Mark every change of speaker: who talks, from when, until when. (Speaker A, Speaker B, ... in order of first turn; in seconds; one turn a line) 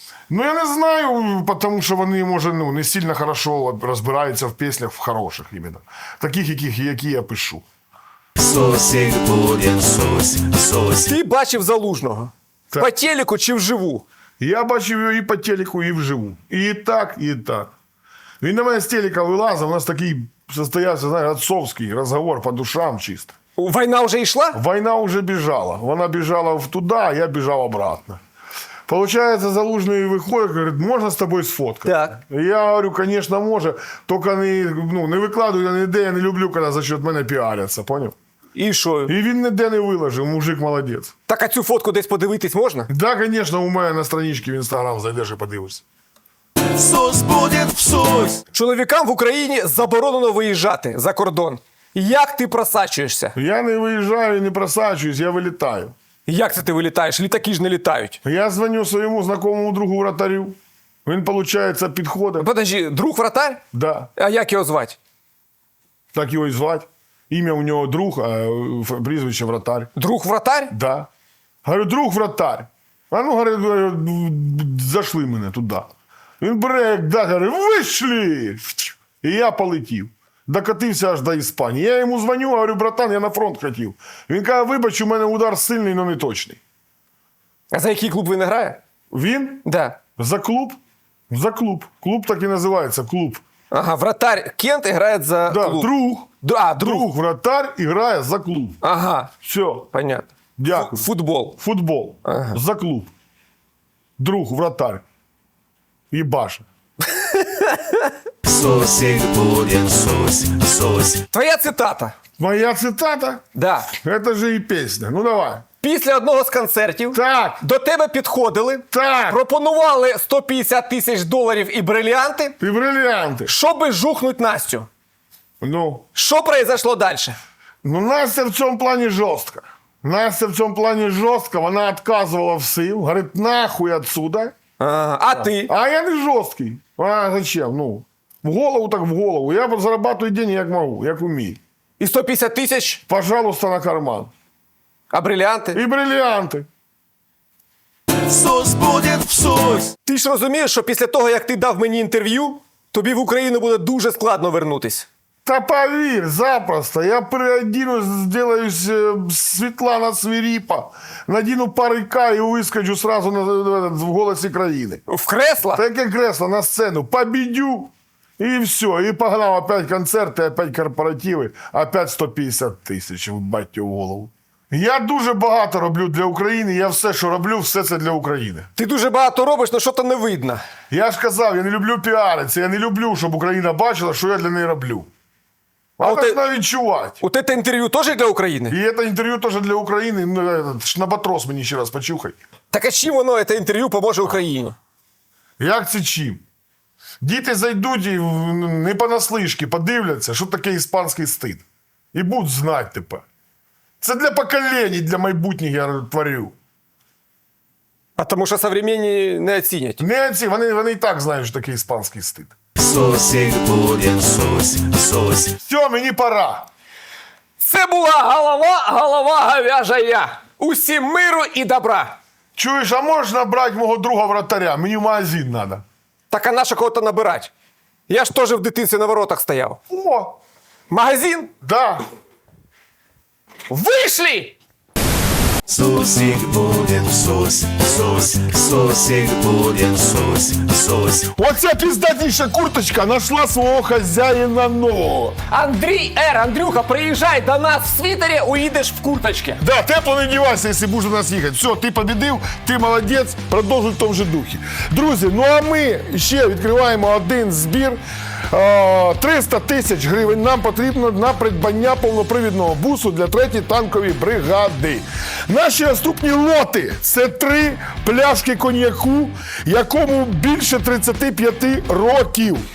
Speaker A: 0.3-7.6
Speaker B: 8.4-11.0
Speaker C: 10.9-14.0
Speaker A: 14.4-17.7
Speaker A: 18.4-23.3
Speaker C: 23.6-24.6
Speaker A: 24.5-28.2
Speaker A: 28.9-38.1
Speaker C: 31.8-32.2
Speaker C: 38.5-39.1
Speaker A: 39.1-41.1
Speaker C: 41.3-42.9
Speaker A: 42.9-45.8
Speaker B: 46.7-48.4
Speaker C: 48.5-53.3
Speaker A: 53.3-55.9
Speaker C: 56.3-58.2
Speaker A: 58.2-62.5
Speaker C: 62.4-63.6
Speaker A: 63.7-64.1
Speaker C: 64.2-65.0
Speaker A: 66.1-69.9
Speaker C: 69.9-70.7
Speaker A: 70.7-71.1
Speaker A: 71.6-75.9
Speaker A: 76.4-86.6
Speaker C: 87.7-88.8
Speaker A: 89.1-89.6
Speaker C: 89.6-90.0
Speaker A: 90.2-90.8
Speaker A: 91.3-93.4
Speaker C: 93.7-95.9
Speaker A: 95.5-96.3
Speaker C: 96.4-97.1
Speaker A: 96.8-98.8
Speaker C: 98.8-99.3
Speaker A: 99.4-99.9
Speaker C: 99.9-101.6
Speaker A: 100.6-101.1
Speaker A: 101.6-103.1
Speaker C: 102.2-102.6
Speaker A: 104.2-105.0
Speaker A: 106.1-106.7
Speaker C: 107.2-108.1
Speaker B: 108.4-111.2
Speaker C: 111.3-112.2
Speaker A: 112.4-113.4
Speaker C: 113.5-113.9
Speaker A: 114.0-115.6
Speaker C: 115.8-122.5
Speaker A: 117.1-117.6
Speaker A: 118.9-119.4
Speaker A: 122.6-123.5
Speaker C: 123.5-124.9
Speaker A: 125.6-126.0
Speaker C: 126.1-127.4
Speaker A: 127.8-134.5
Speaker C: 134.8-135.7
Speaker A: 135.4-141.6
Speaker C: 142.0-143.0
Speaker A: 143.1-144.3
Speaker C: 145.1-145.8
Speaker A: 145.7-146.7
Speaker B: 148.2-149.9
Speaker C: 150.0-155.1
Speaker A: 155.4-165.0
Speaker C: 165.1-165.8
Speaker A: 165.7-178.7
Speaker C: 178.8-180.6
Speaker A: 180.9-185.1
Speaker A: 186.0-187.2
Speaker C: 186.0-186.4
Speaker C: 187.2-188.8
Speaker A: 188.7-192.4
Speaker C: 192.7-194.8
Speaker A: 195.6-196.4
Speaker A: 197.2-203.2
Speaker A: 204.0-206.6
Speaker C: 208.2-210.0
Speaker A: 210.0-212.5
Speaker B: 212.8-215.5
Speaker A: 215.6-216.7
Speaker C: 217.6-222.2
Speaker A: 222.6-225.8
Speaker C: 226.3-227.5
Speaker C: 228.1-229.8
Speaker A: 229.9-230.3
Speaker C: 230.9-231.5
Speaker A: 231.6-232.0
Speaker C: 233.7-234.5
Speaker B: 235.7-241.2
Speaker A: 241.3-245.4
Speaker C: 245.5-249.6
Speaker A: 249.6-272.6